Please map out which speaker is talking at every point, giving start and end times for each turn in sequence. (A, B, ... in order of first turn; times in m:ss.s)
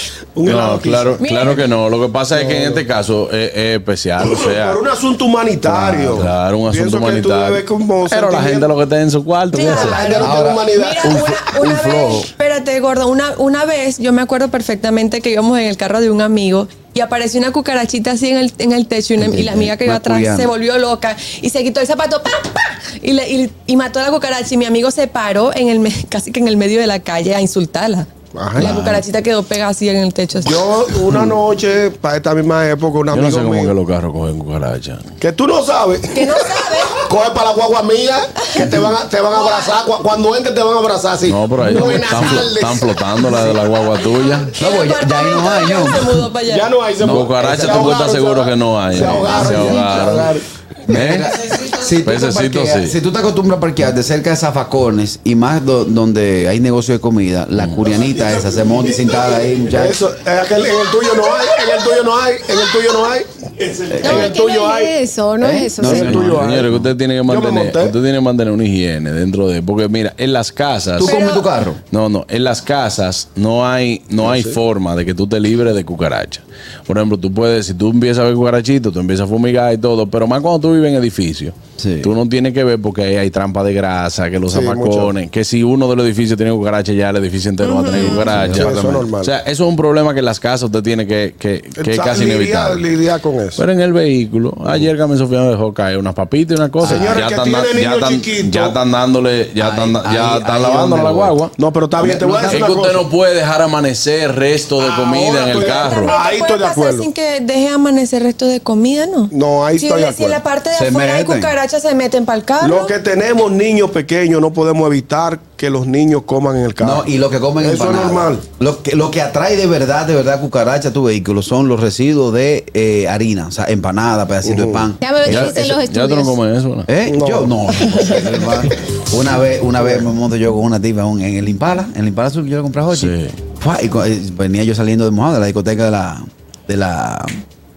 0:00.4-0:01.2 A
0:00.5-0:04.8 B
0:01.2-0:01.6 C
0:02.3-0:02.8 A
0:04.2-0:08.7 A
0:05.7-0:10.0 B
0:09.5-0:28.1 C
0:09.6-0:11.3 A
0:10.2-0:12.3 D
0:19.2-0:20.5 D
0:28.4-0:28.7 A
0:28.6-0:29.0 D
0:28.6-0:30.7 C
0:30.4-0:33.7 A
0:33.1-0:35.1 B
0:35.2-0:43.4 A
0:36.1-0:37.0 C
0:38.4-0:38.7 C
0:39.3-0:39.7 C
0:41.3-0:44.5 B
0:44.5-0:46.3 D
0:44.6-0:46.7 C
0:46.4-0:50.4 A
0:47.0-0:48.1 D
0:47.0-0:50.3 B
0:48.9-1:00.0 D
0:50.9-0:51.3 B
0:52.0-0:52.9 B
0:58.0-1:04.9 A
1:03.9-1:04.3 D
1:04.0-1:06.2 E
1:05.4-1:06.9 D
1:05.8-1:06.7 A
1:05.9-1:11.2 B
1:07.3-1:07.9 A
1:11.0-1:11.8 D
1:11.0-1:11.5 C
1:11.9-1:32.8 B
1:14.3-1:14.5 A
1:21.8-1:22.1 D
1:24.5-1:25.1 A
1:27.6-1:28.3 C
1:27.9-1:29.1 D
1:28.5-1:29.3 A
1:31.8-1:33.6 A
1:33.6-1:41.6 B
1:36.8-1:38.8 A
1:36.8-1:37.2 D
1:39.6-1:41.4 D
1:41.6-1:43.0 A
1:42.0-1:42.7 D
1:42.4-1:46.1 B
1:44.8-1:47.1 A
1:45.6-1:52.9 C
1:49.3-1:50.4 A
1:50.7-1:51.5 D
1:52.6-1:57.1 A
1:56.8-2:05.8 D
1:57.6-1:58.4 A
2:04.4-2:04.9 A
2:05.0-2:06.4 E
2:05.3-2:06.9 B
2:06.9-2:17.4 D
2:07.1-2:07.5 A
2:12.9-2:13.4 B